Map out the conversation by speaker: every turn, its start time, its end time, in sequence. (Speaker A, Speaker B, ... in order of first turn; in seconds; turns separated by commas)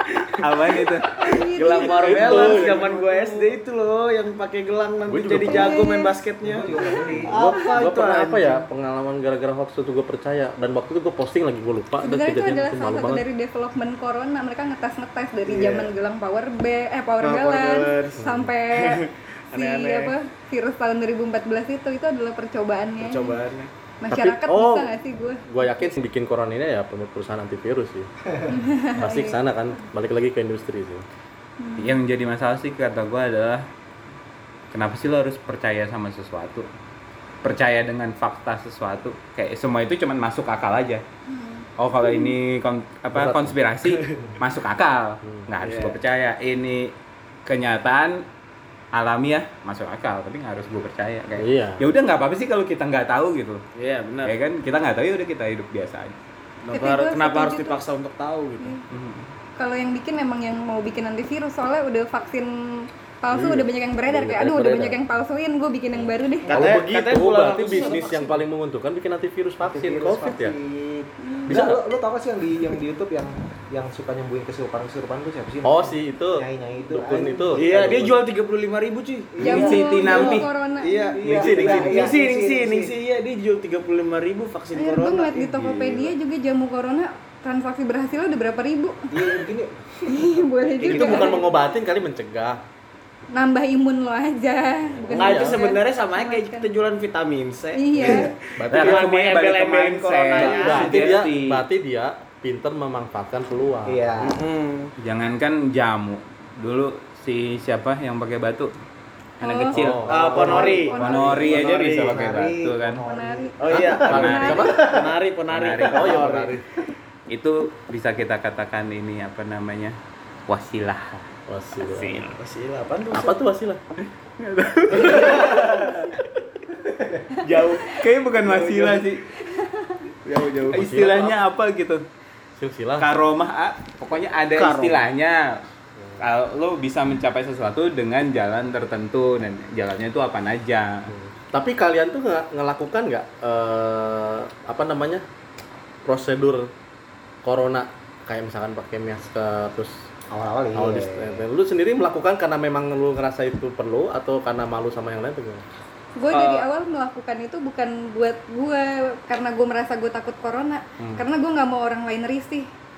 Speaker A: 0.4-1.2, Speaker B: 1.2-3.2, Speaker C: 1.2-8.6, Speaker D: 1.7-3.4, Speaker D: 5.1-5.8, Speaker B: 5.4-6.2, Speaker E: 6.4-7.4, Speaker D: 7.2-13.2, Speaker B: 12.0-23.4, Speaker C: 15.4-15.9, Speaker C: 17.2-20.1, Speaker D: 18.2-18.5, Speaker C: 23.0-23.7, Speaker B: 24.0-25.4, Speaker D: 24.1-24.9, Speaker D: 25.5-28.1, Speaker B: 28.5-29.4, Speaker D: 28.9-31.0, Speaker B: 31.6-32.0, Speaker A: 31.8-33.6, Speaker A: 34.7-36.7, Speaker A: 37.4-41.0, Speaker B: 41.3-42.2, Speaker A: 41.8-46.9, Speaker D: 43.1-43.5, Speaker C: 43.9-44.2, Speaker C: 45.6-46.0, Speaker A: 47.4-48.2, Speaker A: 48.9-53.6, Speaker D: 51.4-51.8, Speaker C: 53.8-54.4, Speaker A: 54.2-56.1, Speaker C: 56.6-58.7, Speaker B: 56.7-57.8, Speaker A: 58.9-59.2, Speaker B: 59.6-66.6, Speaker D: 63.3-65.0, Speaker C: 66.5-68.3, Speaker D: 66.5-70.5, Speaker E: 69.6-78.1, Speaker B: 71.2-71.6, Speaker D: 71.5-71.8, Speaker D: 75.6-78.1, Speaker C: 77.5-80.4, Speaker E: 79.3-83.0, Speaker A: 79.4-80.5, Speaker B: 79.4-81.4, Speaker D: 81.2-82.1, Speaker C: 81.3-85.5, Speaker A: 81.4-81.9, Speaker B: 84.7-89.4, Speaker A: 85.4-86.1, Speaker E: 89.1-90.3, Speaker B: 90.1-91.5, Speaker C: 90.7-91.4, Speaker D: 90.8-92.6, Speaker B: 93.3-96.7, Speaker D: 95.0-95.6, Speaker C: 95.1-101.2, Speaker B: 97.7-98.3, Speaker D: 98.0-99.1, Speaker A: 98.7-101.6, Speaker D: 100.3-104.0, Speaker E: 103.8-104.4, Speaker C: 104.2-104.9, Speaker A: 105.0-108.7, Speaker B: 109.4-109.9, Speaker A: 109.4-110.4, Speaker D: 109.7-110.4, Speaker E: 110.0-114.1, Speaker C: 110.1-112.2, Speaker B: 110.5-111.4, Speaker A: 110.9-113.0, Speaker B: 113.0-114.9, Speaker C: 113.6-116.6, Speaker D: 113.7-115.2, Speaker A: 114.1-114.6, Speaker A: 115.5-116.3, Speaker D: 115.9-116.6, Speaker A: 117.3-121.3, Speaker D: 121.5-122.2, Speaker A: 121.9-122.3, Speaker C: 122.2-123.4, Speaker D: 123.1-123.8, Speaker A: 124.0-126.2, Speaker C: 125.1-125.7, Speaker A: 127.4-129.2, Speaker C: 128.3-129.2, Speaker B: 129.5-130.0, Speaker C: 130.2-130.9, Speaker A: 130.7-132.0, Speaker D: 130.7-131.3, Speaker D: 132.6-133.1, Speaker A: 133.0-135.5, Speaker C: 134.5-135.0, Speaker A: 136.2-141.1, Speaker D: 141.5-145.2, Speaker D: 146.1-146.7, Speaker D: 147.4-149.9, Speaker E: 150.3-151.4, Speaker D: 150.8-155.6, Speaker B: 156.2-162.6, Speaker C: 156.3-156.7